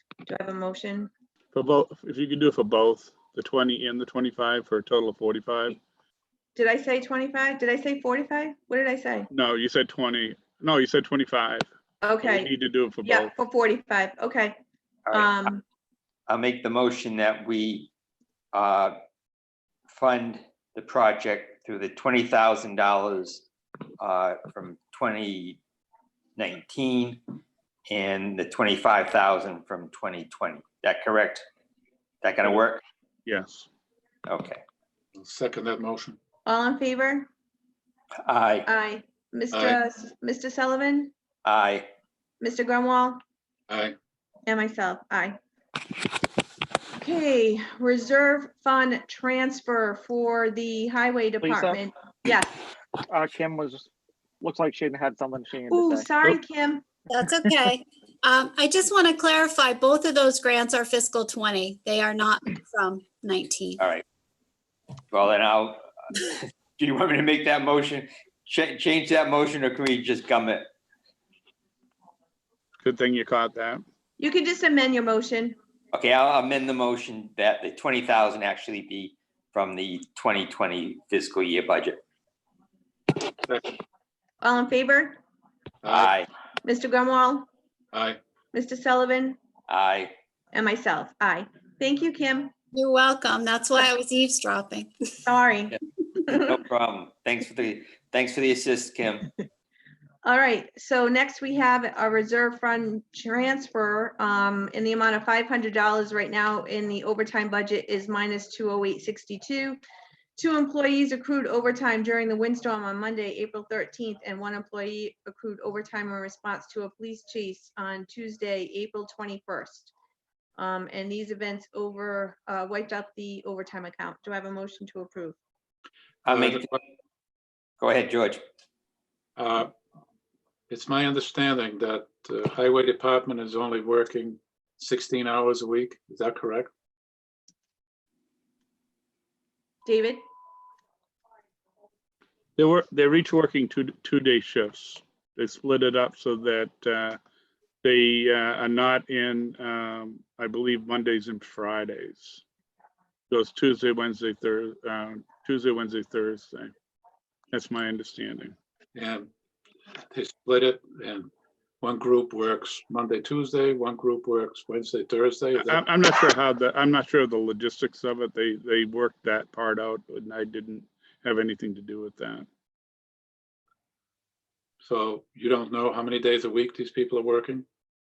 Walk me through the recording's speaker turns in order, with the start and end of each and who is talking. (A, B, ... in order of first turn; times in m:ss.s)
0:00.2-0:01.1 A
0:01.5-0:05.8 B
0:06.5-0:09.3 A
0:09.3-0:11.7 B
0:12.0-0:12.5 A
0:12.2-0:13.3 B
0:13.0-0:14.6 A
0:15.1-0:15.3 C
0:15.1-0:15.6 A
0:16.3-0:17.9 C
0:18.5-0:18.9 C
0:19.9-0:23.4 C
0:24.0-0:25.6 C
0:26.4-0:27.2 C
0:27.9-0:31.4 C
0:32.2-0:32.8 C
0:33.2-0:33.7 B
0:34.3-0:34.6 C
0:35.2-0:36.2 D
0:36.4-0:37.3 A
0:38.2-0:38.7 C
0:38.6-0:41.1 A
0:41.4-0:41.9 C
0:42.4-0:43.2 A
0:43.7-0:43.9 D
0:44.5-0:45.4 A
0:46.9-0:52.6 A
0:51.4-0:51.8 E
0:53.1-0:53.9 E
0:54.4-0:56.1 E
0:55.7-0:56.8 A
0:57.1-1:03.8 F
1:05.1-1:10.7 C
1:12.8-1:13.8 B
1:14.2-1:15.6 A
1:15.9-1:22.0 C
1:23.4-1:23.8 D
1:24.4-1:25.2 A
1:25.8-1:26.1 D
1:25.9-1:26.3 C
1:26.6-1:27.5 A
1:27.9-1:28.2 D
1:28.5-1:29.4 A
1:29.7-1:30.1 C
1:30.5-1:32.5 A
1:32.7-1:35.2 F
1:35.2-1:36.6 A
1:36.3-1:39.3 C
1:40.2-1:49.8 A
1:50.4-1:59.9 A
2:00.6-2:05.4 A
2:06.3-2:06.7 D
2:06.3-2:06.8 C
2:07.8-2:08.4 C
2:09.4-2:09.7 D
2:10.7-2:16.7 D
2:19.8-2:20.2 A
2:22.6-2:27.2 B
2:27.8-2:32.4 B
2:33.3-2:36.7 B
2:37.5-2:38.5 B
2:38.9-2:39.3 D
2:40.1-2:41.3 D
2:41.8-2:45.8 D
2:45.6-2:52.4 B
2:54.8-2:57.6 D